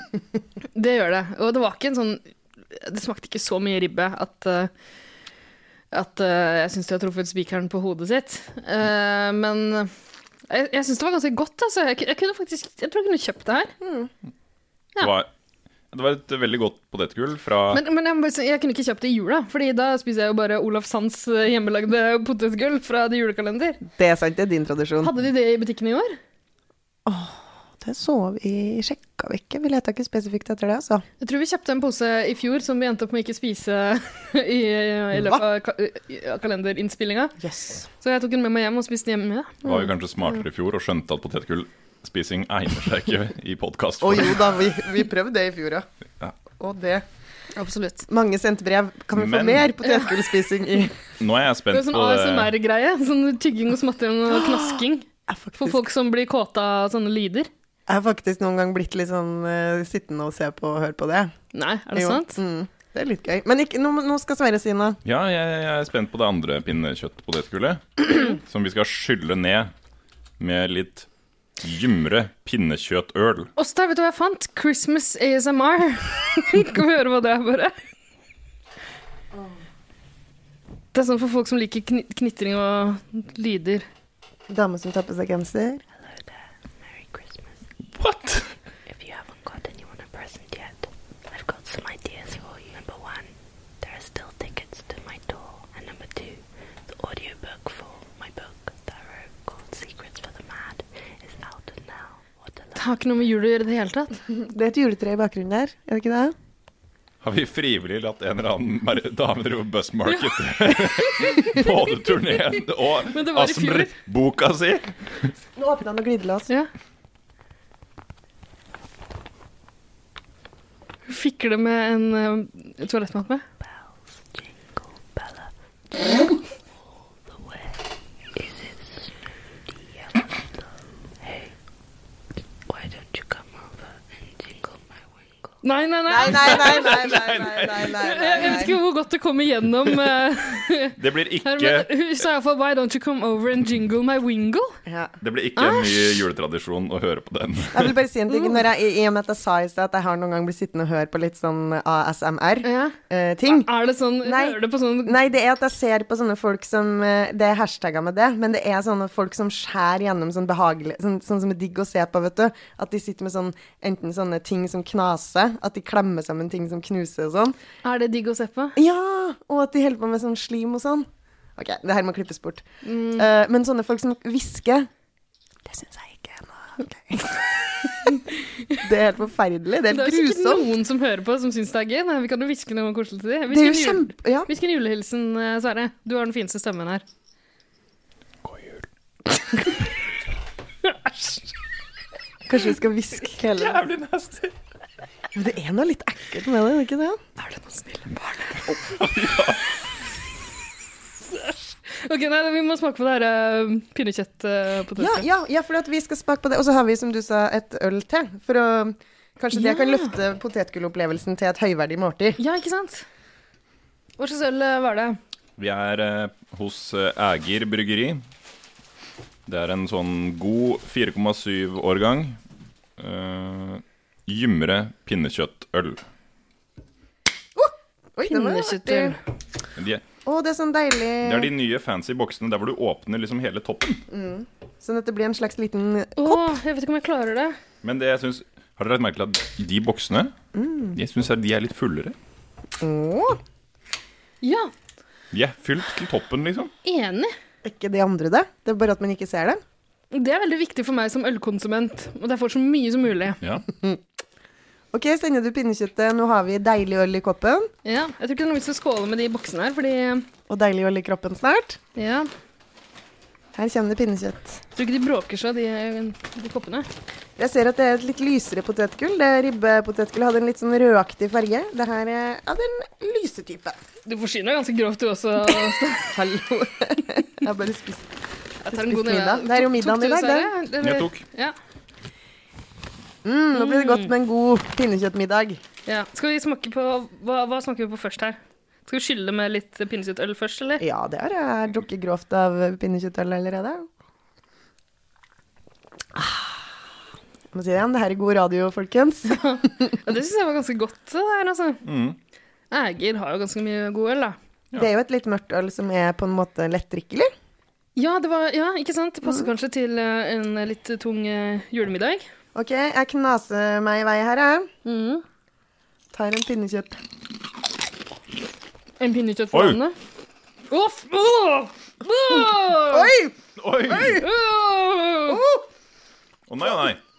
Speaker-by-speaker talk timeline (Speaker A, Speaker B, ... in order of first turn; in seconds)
Speaker A: 0.7-4.7, 5.9-9.9, 10.5-13.8, 17.7-23.8, 25.0-26.2, 31.2-37.4, 38.0-39.7, 47.5-48.1, 51.7-57.5, 61.5-62.4, 73.6-77.8, 80.9-83.9, 102.8-104.2, 110.1-111.7, 113.1-113.9, 121.1-123.4, 135.6-137.3, 137.8-144.8, 145.6-146.2, 152.6-155.2, 167.8-168.8, 172.8-173.3, 178.1-178.8, 179.9-187.0, 190.8-191.4, 197.4-198.7, 201.3-205.3, 209.5-210.1, 212.4-213.1, 214.2-215.2, 228.2-229.2, 236.2-237.6, 244.4-244.7, 246.8-247.3, 250.1-253.4, 257.9-260.3, 262.0-262.3, 264.8-266.9, 274.1-276.2, 278.6-281.6, 283.5-284.1, 285.9-290.8, 299.3-301.8, 302.7-304.4, 308.0-312.3, 314.9-315.2, 319.0-320.0, 320.7-323.1, 324.0-325.4
Speaker B: 13.8-14.1, 23.9-25.1, 27.1-31.0, 35.1-35.4, 37.4-37.9, 44.0-45.9, 46.5-47.0, 48.1-51.0, 54.4-54.8, 55.3-55.8, 57.9-61.3, 61.9-65.0, 84.5-85.8, 104.3-106.3, 115.6-116.5, 136.1-138.8, 144.9-145.2, 147.7-153.7, 154.2-167.6, 168.8-172.7, 173.2-174.9, 175.7-178.1, 178.8-180.7, 183.5-184.5, 192.5-193.8, 195.3-197.2, 205.0-212.4, 227.6-229.2, 230.2-231.5, 234.1-236.5, 240.5-241.0, 242.8-243.4, 247.6-249.6, 254.9-257.7, 260.5-261.8, 263.6-264.6, 267.4-273.8, 276.1-278.1, 278.7-280.5, 283.2-285.6, 290.8-293.9, 296.1-296.7, 297.5-299.4, 304.8-307.3, 312.6-314.7, 316.1-317.0, 322.8-323.4, 323.9-324.2, 325.3-325.7
Speaker C: 15.0-15.3, 15.9-17.8, 39.6-44.5, 49.1-49.7, 51.2-52.5, 65.0-69.7, 70.4-71.1, 71.6-73.5, 88.0-88.5, 107.2-115.3, 136.3-138.1, 141.0-141.9, 145.2-147.9, 188.4-188.8, 193.5-194.5, 198.8-199.7, 215.6-218.2, 219.5-222.4, 223.0-226.0, 229.8-230.0, 231.2-234.0, 237.8-240.3, 240.9-242.2, 245.3-246.7, 280.8-281.2, 301.8-302.2, 319.5-319.8, 323.6-324.3, 326.5-327.0
Speaker D: 86.8-87.5, 88.9-93.3, 93.8-102.8, 123.6-125.5, 127.3-127.7, 128.4-129.1, 129.7-130.4, 131.2-131.5, 132.7-135.5